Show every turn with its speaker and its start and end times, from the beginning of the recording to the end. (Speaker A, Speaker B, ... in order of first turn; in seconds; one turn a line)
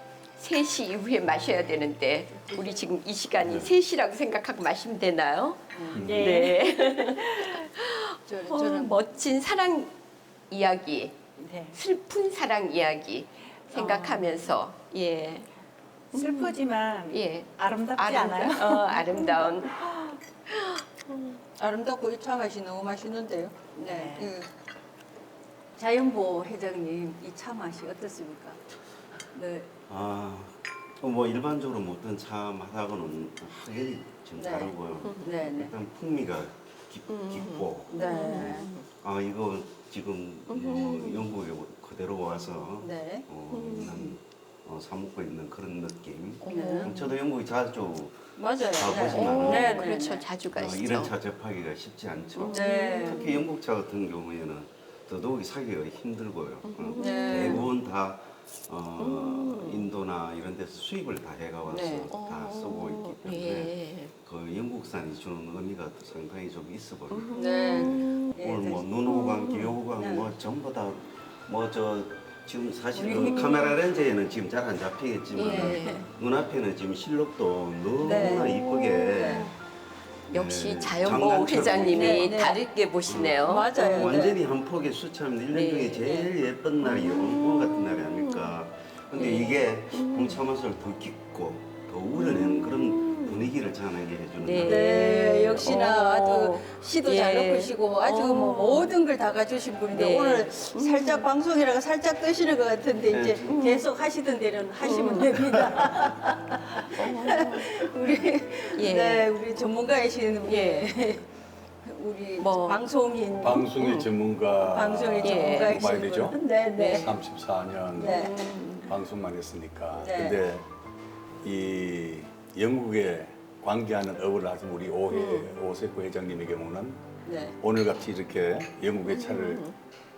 Speaker A: 0.4-9.9
Speaker B: 2.5-2.9
Speaker C: 3.4-3.7
Speaker B: 5.7-6.2
Speaker C: 5.9-6.4
Speaker D: 6.0-7.4
Speaker B: 8.2-9.0
Speaker A: 10.5-11.2
Speaker D: 11.4-11.8
Speaker A: 11.7-15.5
Speaker D: 13.7-14.4
Speaker A: 16.1-16.6
Speaker D: 16.1-20.0
Speaker A: 17.1-21.4
Speaker B: 21.6-24.5
Speaker D: 23.8-24.3
Speaker B: 25.8-28.6
Speaker B: 29.3-29.7
Speaker E: 29.9-50.0
Speaker B: 34.4-35.7
Speaker A: 35.0-35.3
Speaker A: 37.1-38.9
Speaker B: 37.9-38.7
Speaker A: 40.5-41.3
Speaker B: 42.8-43.2
Speaker A: 43.5-44.1
Speaker A: 46.4-47.0
Speaker B: 46.5-47.0
Speaker B: 48.4-50.4
Speaker A: 49.0-51.1
Speaker E: 50.5-79.5
Speaker A: 52.4-53.4
Speaker B: 52.5-53.2
Speaker A: 56.6-57.6
Speaker B: 57.0-57.7
Speaker A: 59.0-59.9
Speaker B: 61.7-62.1
Speaker A: 62.1-64.1
Speaker A: 67.1-68.3
Speaker B: 67.4-68.8
Speaker A: 69.0-69.7
Speaker B: 70.0-70.3
Speaker B: 72.9-73.7
Speaker A: 73.2-73.6
Speaker A: 75.3-76.1
Speaker B: 75.4-76.0
Speaker B: 78.0-79.5
Speaker A: 78.0-79.5
Speaker A: 80.3-84.3
Speaker E: 80.3-82.4
Speaker B: 81.7-82.7
Speaker E: 83.0-95.7
Speaker B: 83.5-84.4
Speaker A: 85.5-86.1
Speaker B: 86.0-86.3
Speaker A: 86.8-88.6
Speaker A: 89.1-90.4
Speaker A: 92.1-93.5
Speaker A: 94.4-99.0
Speaker B: 94.6-111.3
Speaker A: 99.9-101.3
Speaker E: 103.1-103.6
Speaker A: 103.5-103.9
Speaker A: 104.8-105.5
Speaker A: 106.9-109.3
Speaker A: 110.5-111.0
Speaker B: 111.8-113.7
Speaker A: 112.4-112.8
Speaker C: 113.4-116.4
Speaker A: 113.6-114.1
Speaker B: 114.5-117.1
Speaker A: 115.2-116.0
Speaker A: 116.7-117.2
Speaker C: 117.0-118.2
Speaker B: 117.9-118.3
Speaker A: 118.0-119.0
Speaker C: 118.8-120.7
Speaker B: 119.9-120.4
Speaker C: 121.4-127.0
Speaker A: 125.1-125.5
Speaker B: 127.2-127.5
Speaker C: 127.6-129.6
Speaker A: 129.1-129.7